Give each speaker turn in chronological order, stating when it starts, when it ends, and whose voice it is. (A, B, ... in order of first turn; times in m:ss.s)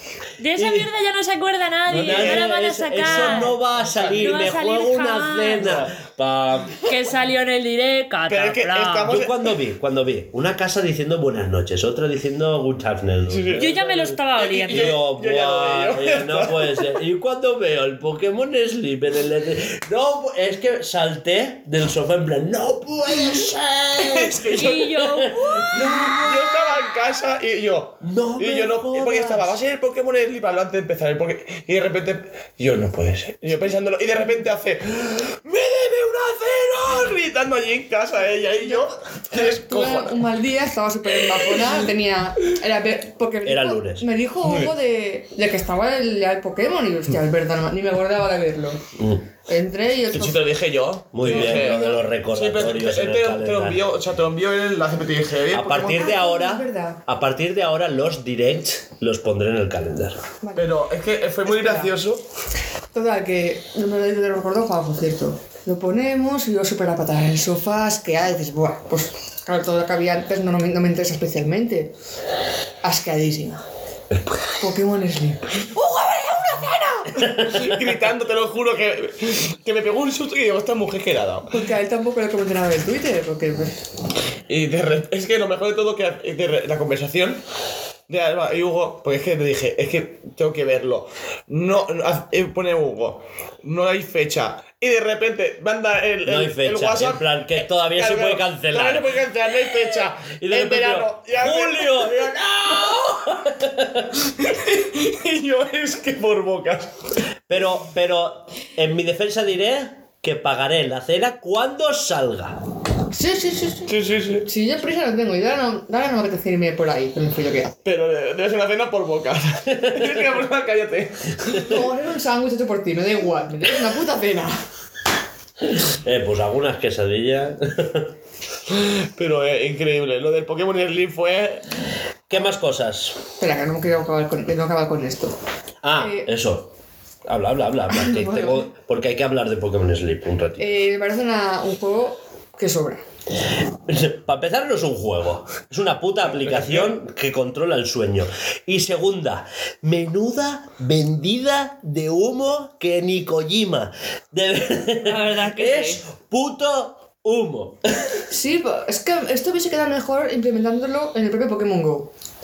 0:00.4-0:03.6 A
0:00.6-0:00.9 B
0:01.9-0:06.9 B
0:02.0-0:04.5 C
0:04.2-0:05.9 A
0:06.8-0:09.2 A
0:08.3-0:09.6 C
0:09.1-0:13.8 B
0:13.3-0:16.9 C
0:13.5-0:14.9 A
0:14.7-0:26.8 B
0:24.0-0:24.9 C
0:24.5-0:25.9 A
0:25.8-0:40.3 C
0:28.0-0:29.5 B
0:38.6-0:48.8 D
0:41.2-0:41.8 C
0:43.4-0:44.1 B
0:44.4-0:44.7 C
0:49.0-0:49.3 B
0:49.5-0:50.5 D
0:50.1-0:56.1 C
0:51.1-0:53.8 B
0:51.2-0:52.0 D
0:55.5-1:00.2 B
0:55.9-0:57.0 D
1:00.4-1:00.7 D
1:00.6-1:02.2 C
1:01.4-1:01.9 D
1:02.9-1:11.9 D
1:12.8-1:13.6 D
1:14.6-1:17.3 D
1:17.2-1:21.6 C
1:21.5-1:23.8 D
1:24.5-1:27.4 C
1:28.1-1:43.3 C
1:36.2-1:44.2 B
1:44.3-1:47.2 C
1:47.5-1:52.6 B
1:53.1-1:53.9 D
1:53.9-1:54.5 C
1:54.4-1:57.7 D
1:57.8-2:01.8 C
1:59.7-2:00.2 B
2:01.7-2:04.6 D
2:05.6-2:08.1 B
2:08.7-2:11.7 C
2:12.3-2:13.2 B
2:13.4-2:15.4 D
2:15.8-2:16.7 B
2:16.0-2:16.3 D
2:17.3-2:20.8 B
2:17.9-2:18.6 D
2:20.6-2:23.0 D
2:23.9-2:38.0 B
2:26.4-2:26.9 C
2:35.0-2:36.0 A
2:38.3-2:42.1 D